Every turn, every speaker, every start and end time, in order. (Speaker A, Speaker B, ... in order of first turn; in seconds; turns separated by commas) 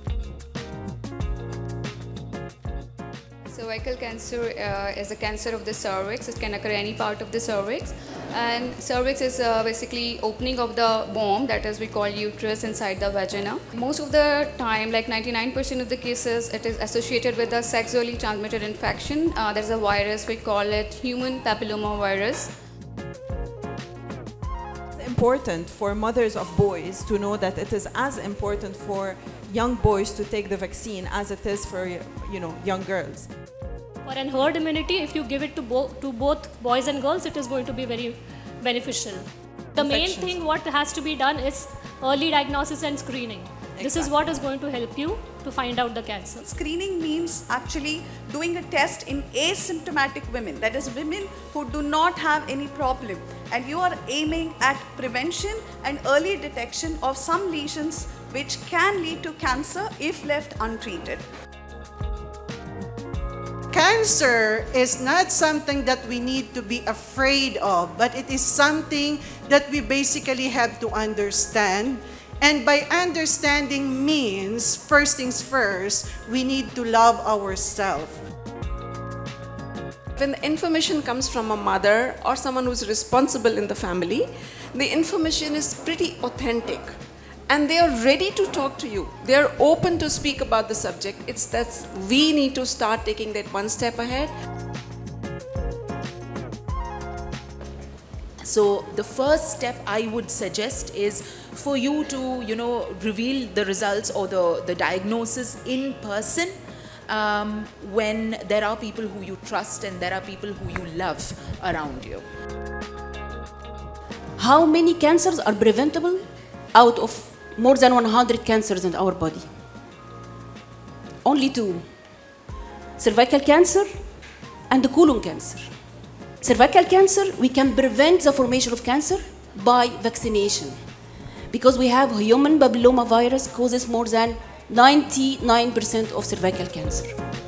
Speaker A: 3.5-22.5, Speaker B: 24.9-33.3, Speaker C: 34.0-46.4, Speaker B: 39.8-40.4, Speaker B: 43.8-44.1, Speaker D: 46.4-61.2, Speaker E: 63.7-78.2, Speaker F: 80.2-86.9, Speaker F: 87.5-94.3, Speaker G: 98.4-112.3, Speaker H: 114.4-119.5, Speaker H: 121.2-121.8, Speaker H: 123.0-123.9, Speaker H: 124.7-125.7, Speaker H: 126.4-130.8, Speaker H: 131.5-137.2